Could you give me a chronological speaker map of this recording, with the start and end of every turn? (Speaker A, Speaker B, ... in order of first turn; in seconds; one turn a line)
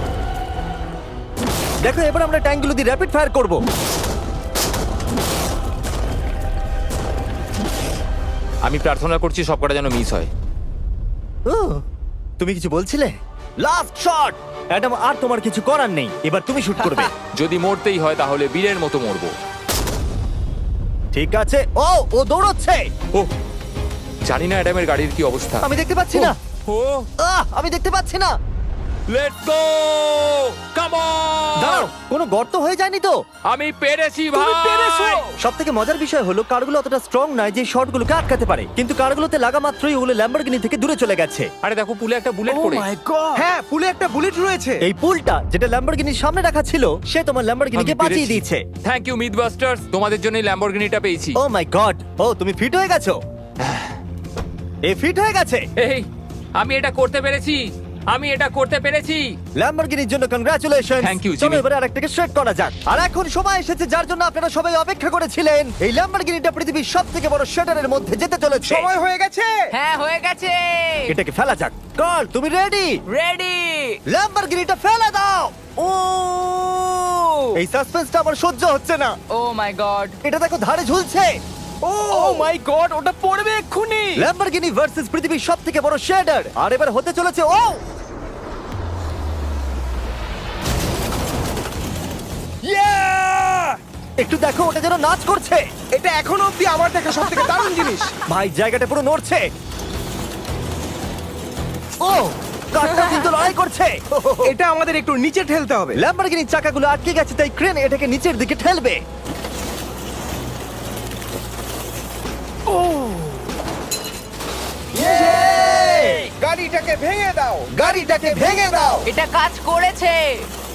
Speaker A: 1.8-3.6
Speaker B: 8.6-10.3
Speaker A: 11.5-11.8
Speaker A: 12.4-17.1
Speaker B: 16.8-19.3
Speaker A: 21.1-22.9
Speaker B: 24.2-27.1
Speaker A: 25.6-26.4
Speaker A: 27.2-28.3
Speaker B: 29.1-31.9
Speaker A: 31.6-33.1
Speaker B: 33.5-35.3
Speaker C: 34.3-35.3
Speaker A: 35.4-41.5
Speaker B: 41.6-42.9
Speaker D: 42.5-43.4
Speaker C: 43.1-44.8
Speaker A: 44.8-48.6
Speaker B: 47.8-51.4
Speaker A: 51.4-53.1
Speaker B: 53.6-54.0
Speaker A: 54.9-55.6
Speaker B: 55.8-59.4
Speaker A: 59.6-68.9
Speaker B: 61.0-61.6
Speaker C: 68.6-69.7
Speaker E: 69.7-71.1
Speaker A: 71.1-72.9
Speaker E: 73.1-74.0
Speaker A: 74.1-76.8
Speaker C: 77.0-77.4
Speaker A: 77.5-79.1
Speaker E: 79.3-80.2
Speaker A: 80.2-81.3
Speaker C: 81.8-82.5
Speaker D: 82.1-84.3
Speaker A: 84.1-87.8
Speaker C: 92.7-93.7
Speaker A: 94.2-95.6
Speaker C: 95.9-98.2
Speaker A: 98.2-99.4
Speaker A: 102.0-104.5
Speaker C: 104.4-106.0
Speaker A: 106.0-109.0
Speaker C: 114.9-119.0
Speaker A: 115.0-116.3
Speaker A: 117.7-119.0
Speaker E: 119.0-120.2